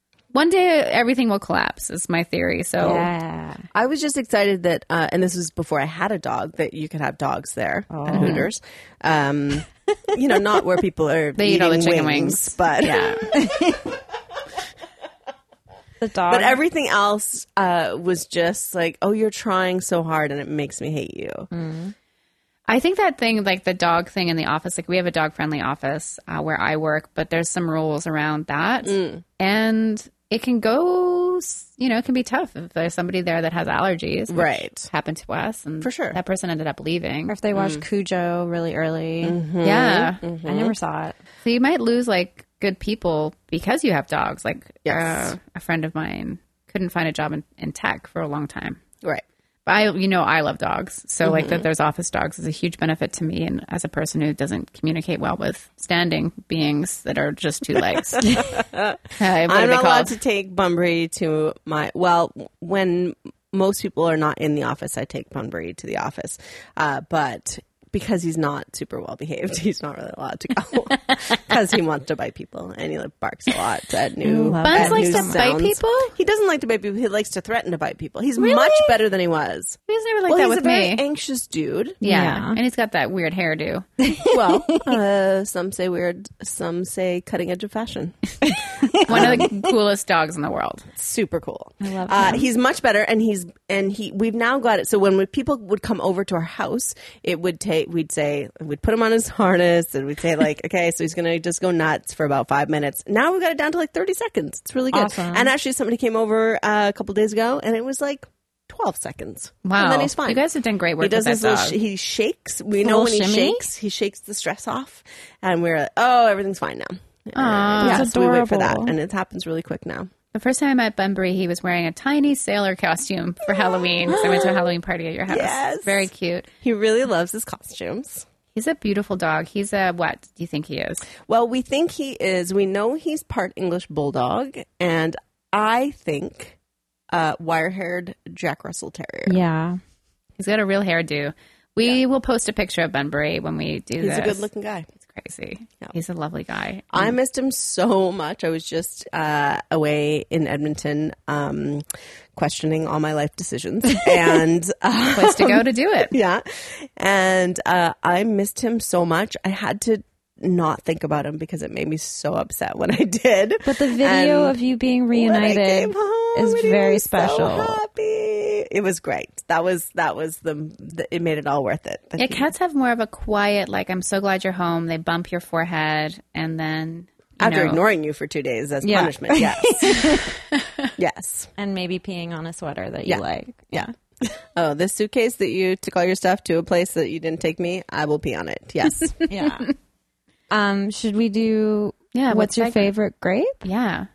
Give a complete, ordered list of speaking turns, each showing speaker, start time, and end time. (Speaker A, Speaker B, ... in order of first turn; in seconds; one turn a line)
Speaker A: 0.3-3.1
Speaker B: 2.8-3.6
Speaker C: 3.7-13.6
Speaker B: 7.9-8.5
Speaker A: 8.1-8.5
Speaker A: 11.4-13.3
Speaker B: 13.3-13.9
Speaker B: 16.0-16.6
Speaker C: 16.3-21.5
Speaker B: 21.5-21.9
Speaker A: 22.7-37.4
Speaker C: 28.9-29.2
Speaker C: 34.3-34.9
Speaker C: 35.8-36.2
Speaker B: 37.3-39.4
Speaker C: 37.5-37.8
Speaker C: 39.2-40.8
Speaker A: 39.6-40.2
Speaker B: 40.5-41.2
Speaker A: 41.4-48.8
Speaker C: 44.9-45.4
Speaker A: 49.7-58.6
Speaker C: 51.2-51.7
Speaker C: 58.3-82.0
Speaker A: 59.2-60.1
Speaker B: 74.2-75.4
Speaker A: 74.6-76.1
Speaker A: 78.5-78.9
Speaker A: 79.9-81.0
Speaker A: 82.0-83.9
Speaker B: 82.0-82.6
Speaker B: 84.0-84.9
Speaker C: 84.3-88.2
Speaker B: 88.4-89.7
Speaker A: 89.0-90.9
Speaker C: 89.1-89.5
Speaker C: 91.0-110.4
Speaker B: 91.8-92.5
Speaker B: 104.9-105.5
Speaker A: 109.7-111.8
Speaker C: 111.0-120.1
Speaker B: 112.8-113.7
Speaker A: 117.3-118.1
Speaker B: 117.8-119.0
Speaker A: 120.3-126.5
Speaker C: 124.1-124.5
Speaker C: 125.3-126.1
Speaker C: 126.6-128.3
Speaker A: 128.5-131.1
Speaker C: 131.2-136.6
Speaker C: 137.1-139.4
Speaker B: 139.3-139.8
Speaker A: 140.4-144.4
Speaker C: 144.0-144.9
Speaker A: 145.1-147.2
Speaker C: 146.9-151.8
Speaker C: 152.3-164.6
Speaker A: 155.1-156.2
Speaker B: 163.7-167.8
Speaker C: 165.2-172.5
Speaker A: 172.2-177.8
Speaker C: 177.4-180.2
Speaker B: 178.8-180.3
Speaker A: 180.6-180.9
Speaker C: 181.0-181.5
Speaker B: 181.6-183.9
Speaker C: 183.1-189.2
Speaker B: 189.3-189.7
Speaker B: 190.5-193.7
Speaker A: 192.1-192.9
Speaker A: 193.6-194.1